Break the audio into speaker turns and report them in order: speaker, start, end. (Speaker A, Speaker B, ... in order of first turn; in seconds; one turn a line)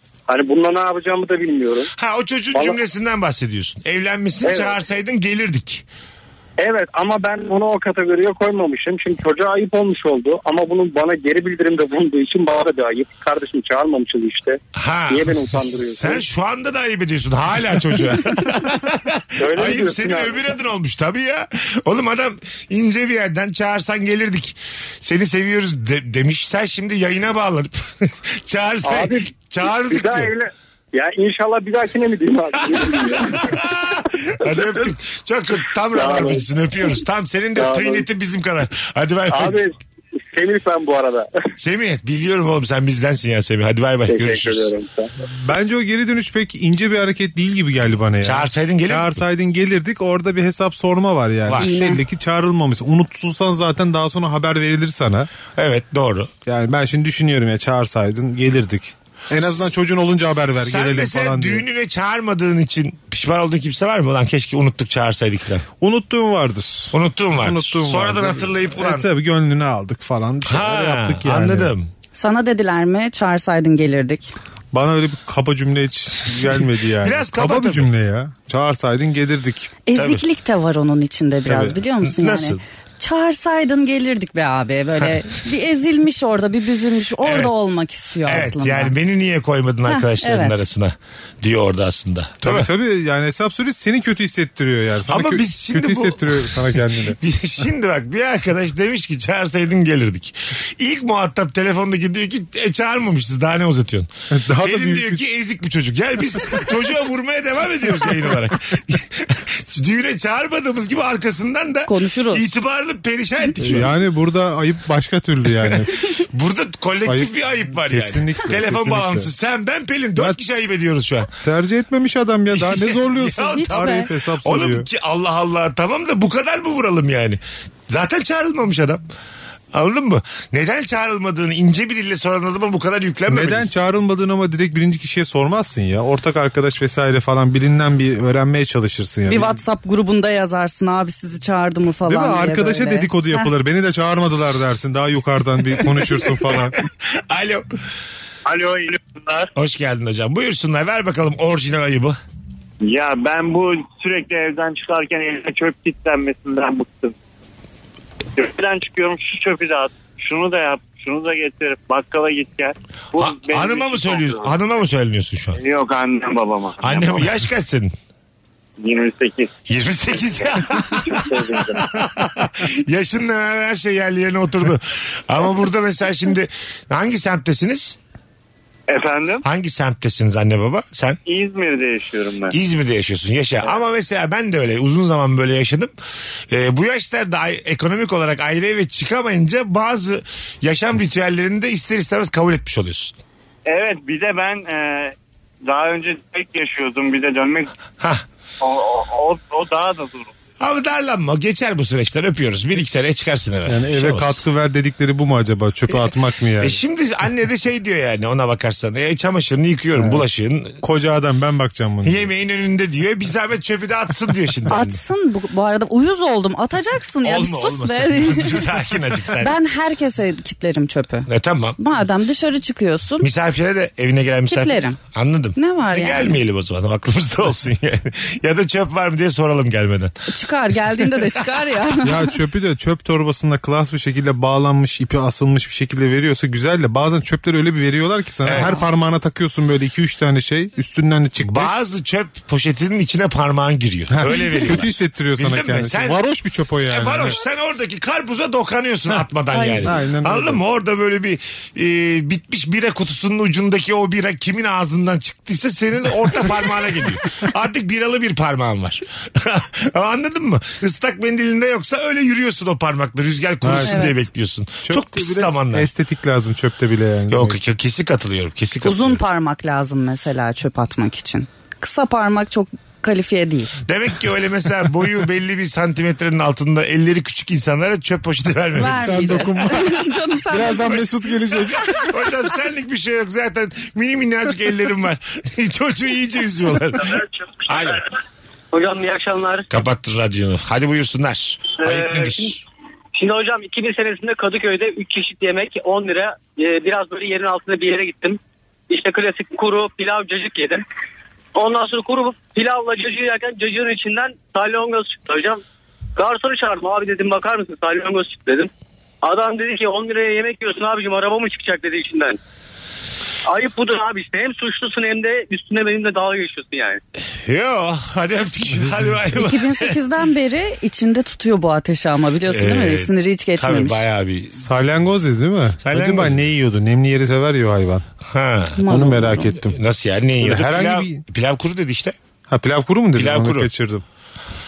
Speaker A: 0.3-1.9
Speaker B: 2.0-5.9
Speaker A: 4.4-4.7
Speaker A: 6.6-16.2
Speaker B: 14.8-30.3
Speaker A: 19.4-20.4
Speaker A: 28.9-33.7
Speaker B: 32.7-39.6
Speaker A: 35.9-36.5
Speaker A: 37.6-38.1
Speaker A: 39.3-39.8
Speaker A: 40.3-41.3
Speaker B: 41.6-44.7
Speaker A: 44.1-45.1
Speaker C: 45.4-55.3
Speaker B: 48.2-49.1
Speaker D: 51.6-52.0
Speaker B: 55.5-56.3
Speaker C: 56.5-61.6
Speaker B: 60.6-65.7
Speaker C: 65.8-71.7
Speaker B: 66.9-69.1
Speaker B: 70.5-71.9
Speaker D: 72.1-74.3
Speaker C: 74.7-79.8
Speaker B: 77.0-77.9
Speaker D: 79.9-88.9
Speaker B: 80.0-80.2
Speaker B: 82.0-82.6
Speaker B: 87.2-87.5
Speaker B: 88.2-92.7
Speaker D: 89.9-90.6
Speaker C: 92.4-97.2
Speaker B: 95.1-114.0
Speaker C: 104.3-105.2
Speaker D: 111.9-112.5
Speaker C: 113.6-115.9
Speaker B: 115.6-121.3
Speaker C: 117.1-119.3
Speaker C: 121.4-124.9
Speaker B: 122.5-129.0
Speaker D: 123.5-124.1
Speaker B: 129.7-133.7
Speaker C: 133.3-139.6
Speaker D: 139.3-143.5
Speaker C: 142.1-146.8
Speaker B: 147.2-147.7
Speaker E: 148.4-149.5
Speaker B: 149.6-152.2
Speaker E: 152.8-157.2
Speaker E: 158.3-164.6
Speaker B: 163.2-165.6
Speaker E: 165.5-167.3
Speaker B: 166.8-167.9
Speaker E: 168.8-169.5
Speaker B: 169.7-178.0
Speaker E: 170.2-172.3
Speaker E: 178.9-179.4
Speaker B: 179.4-181.2
Speaker E: 181.3-182.6
Speaker B: 182.5-185.9
Speaker B: 186.5-193.2
Speaker E: 193.7-197.7
Speaker E: 198.6-200.3
Speaker B: 200.6-204.4
Speaker C: 203.7-206.8
Speaker B: 206.6-210.8
Speaker C: 210.0-210.2
Speaker C: 210.8-212.3
Speaker B: 212.0-215.0
Speaker D: 214.7-218.7
Speaker B: 217.2-219.5
Speaker D: 219.4-223.3
Speaker B: 221.3-221.8
Speaker B: 223.2-230.2
Speaker D: 224.5-225.0
Speaker D: 225.6-226.4
Speaker D: 230.3-232.4
Speaker B: 231.0-231.4
Speaker C: 232.0-241.7
Speaker B: 238.4-238.8
Speaker D: 238.5-238.8
Speaker B: 241.4-246.2
Speaker C: 244.1-247.4
Speaker B: 246.9-265.9
Speaker D: 249.5-249.9
Speaker C: 249.8-250.6
Speaker C: 263.6-264.2
Speaker D: 263.8-264.1
Speaker C: 264.8-267.6
Speaker B: 267.3-269.2
Speaker D: 268.8-273.8
Speaker B: 273.9-279.9
Speaker D: 278.8-281.0
Speaker C: 278.9-282.1
Speaker B: 280.9-288.1
Speaker F: 288.7-289.7
Speaker B: 289.7-292.6
Speaker F: 291.8-292.6
Speaker F: 293.2-298.4
Speaker F: 298.9-300.8
Speaker F: 301.6-305.6
Speaker F: 306.2-308.7
Speaker F: 309.2-312.4
Speaker F: 313.5-317.0
Speaker B: 317.4-320.0
Speaker D: 319.4-324.0
Speaker B: 322.5-324.7
Speaker C: 324.6-328.0
Speaker B: 325.8-326.4
Speaker B: 328.3-328.8
Speaker D: 328.8-329.6
Speaker C: 328.9-329.7
Speaker B: 329.6-332.2
Speaker C: 330.4-331.2
Speaker C: 332.5-334.0
Speaker B: 333.1-333.7